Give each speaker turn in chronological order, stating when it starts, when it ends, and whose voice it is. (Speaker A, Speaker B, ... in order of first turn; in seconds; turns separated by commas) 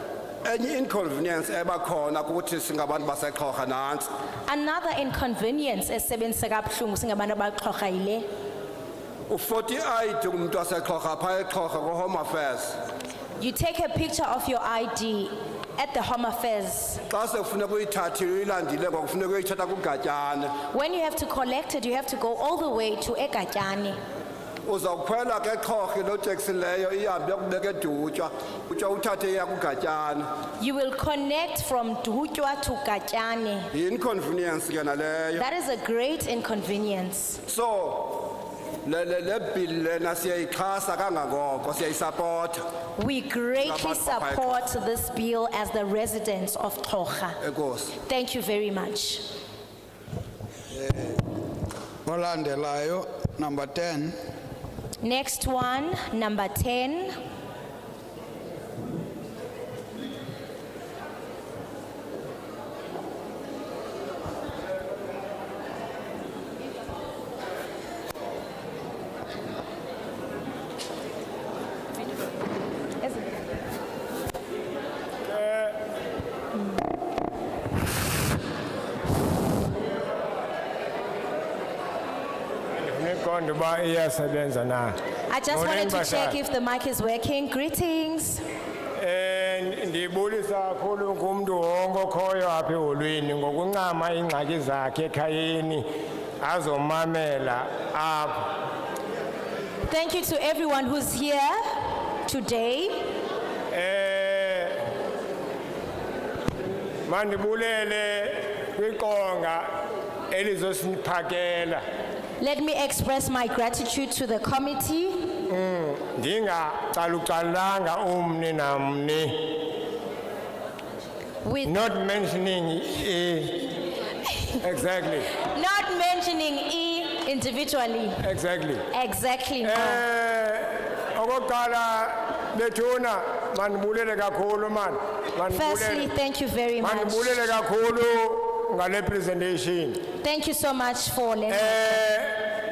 Speaker A: 0.4-4.1, Speaker B: 4.5-8.2, Speaker A: 9.3-12.8, Speaker B: 13.4-17.0, Speaker A: 17.1-20.5, Speaker B: 20.7-23.9, Speaker A: 24.6-30.2, Speaker B: 30.6-33.7, Speaker A: 33.7-35.4, Speaker B: 35.3-37.4, Speaker A: 37.5-42.6, Speaker B: 43.0-47.4, Speaker A: 43.6-44.6, Speaker A: 47.4-47.9, Speaker B: 48.0-49.2, Speaker C: 52.0-54.2, Speaker B: 55.0-57.2, Speaker D: 75.3-75.7, Speaker D: 82.8-84.9, Speaker B: 85.3-88.4, Speaker D: 85.5-86.4, Speaker D: 89.0-95.9, Speaker D: 96.4-98.5, Speaker B: 99.8-103.0, Speaker D: 103.7-104.7, Speaker D: 107.1-109.7, Speaker D: 110.3-111.8, Speaker B: 112.4-115.3, Speaker D: 115.5-119.5, Speaker B: 121.4-121.8, Speaker D: 121.6-123.8, Speaker D: 124.6-125.3, Speaker B: 125.4-128.2, Speaker D: 128.2-128.8, Speaker B: 128.9-130.0, Speaker D: 129.6-136.1, Speaker B: 135.5-137.4, Speaker D: 136.8-140.0, Speaker B: 140.2-142.1, Speaker D: 141.5-142.4